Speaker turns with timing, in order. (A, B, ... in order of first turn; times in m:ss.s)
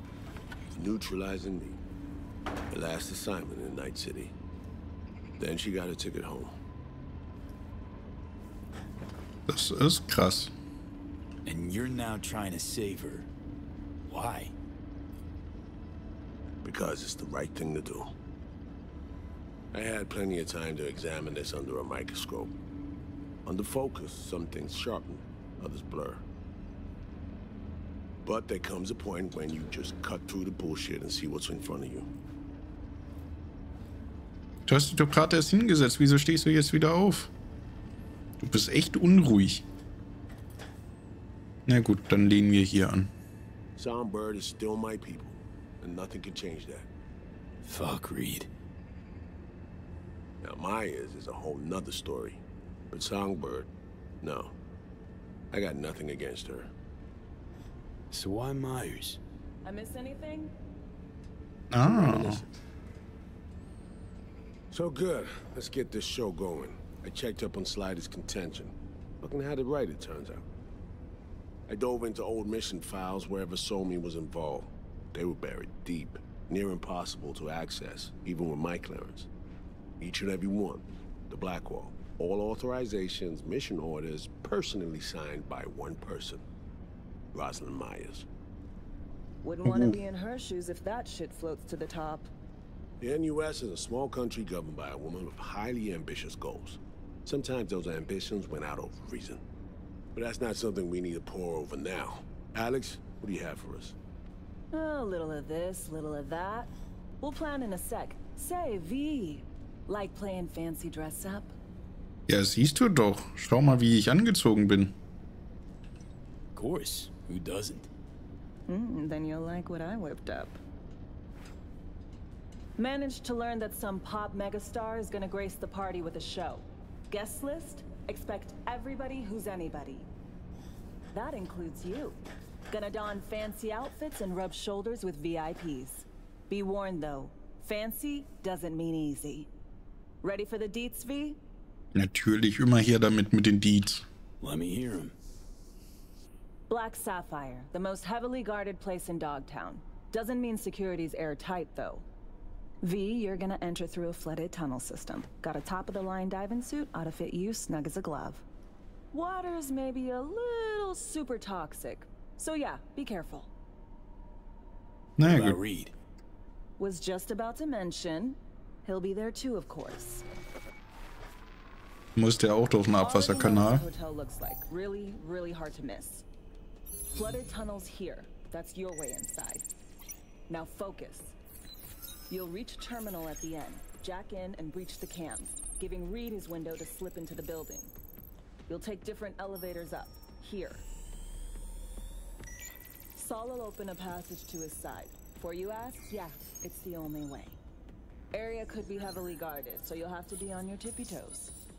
0:00.7-0:01.8 A
0:02.7-0:04.3 A
0:05.4-0:06.6 A
0:09.5-0:10.5 B
0:11.4-0:13.3 C
0:14.0-0:14.6 C
0:16.6-0:18.1 A
0:19.7-0:22.5 A
0:23.4-0:26.2 A
0:28.2-0:32.1 A
0:34.7-0:37.3 B
0:38.4-0:39.6 B
0:41.7-0:43.1 B
0:43.8-0:46.9 A
0:47.6-0:48.5 C
0:50.4-0:53.7 A
0:54.2-0:54.6 A
0:55.5-0:56.7 A
0:58.1-0:59.2 C
0:59.6-1:00.5 D
1:01.7-1:02.4 B
1:01.8-1:02.5 A
1:04.7-1:10.4 A
1:11.7-1:19.3 A
1:20.0-1:26.4 A
1:27.3-1:28.3 A
1:29.4-1:32.3 D
1:29.6-1:30.0 B
1:33.0-1:39.4 A
1:40.2-1:44.0 A
1:44.7-1:51.6 D
1:52.3-1:55.0 B
1:56.5-1:57.9 C
1:58.7-2:00.6 D
2:02.8-2:10.1 D
2:11.1-2:19.5 D
2:20.2-2:21.4 D
2:22.0-2:24.0 B
2:24.4-2:25.2 C
2:26.7-2:32.1 D
2:32.8-2:38.4 D
2:39.1-2:43.5 D
2:45.2-2:45.6 B
2:45.2-2:45.9 C
2:46.8-2:50.2 D
2:52.2-2:53.9 B
2:53.0-2:56.2 D
2:57.1-2:59.7 D
3:00.5-3:01.4 D
3:02.3-3:07.9 D
3:08.7-3:10.9 D
3:13.2-3:17.6 D
3:18.3-3:21.5 D